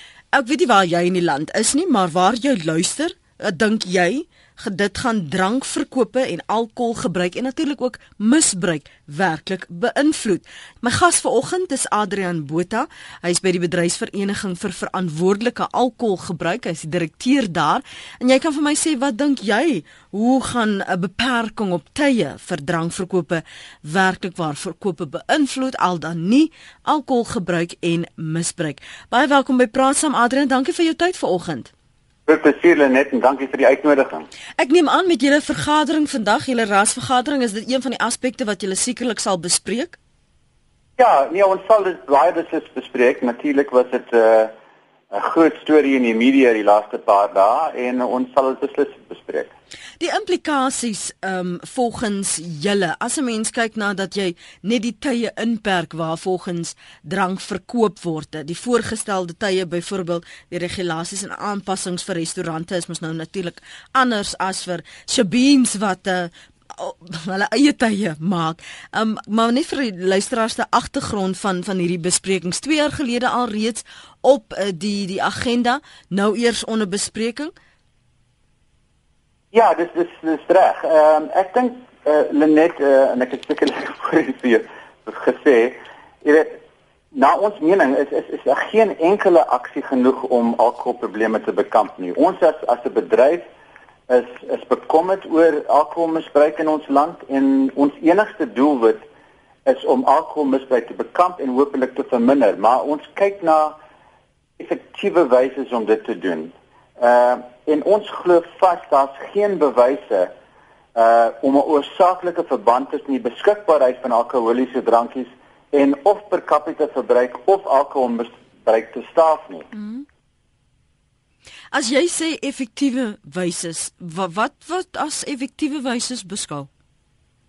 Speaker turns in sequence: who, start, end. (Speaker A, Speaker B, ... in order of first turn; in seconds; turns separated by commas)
Speaker A: 0.3-31.7, Speaker B: 32.3-34.3, Speaker A: 34.6-40.0, Speaker B: 41.0-44.5, Speaker B: 45.1-49.5, Speaker A: 50.0-77.5, Speaker B: 79.5-86.6, Speaker B: 87.1-93.5, Speaker B: 94.1-99.1, Speaker B: 99.7-103.8, Speaker B: 104.6-110.3, Speaker B: 111.0-119.7, Speaker A: 119.7-120.0, Speaker A: 121.7-126.7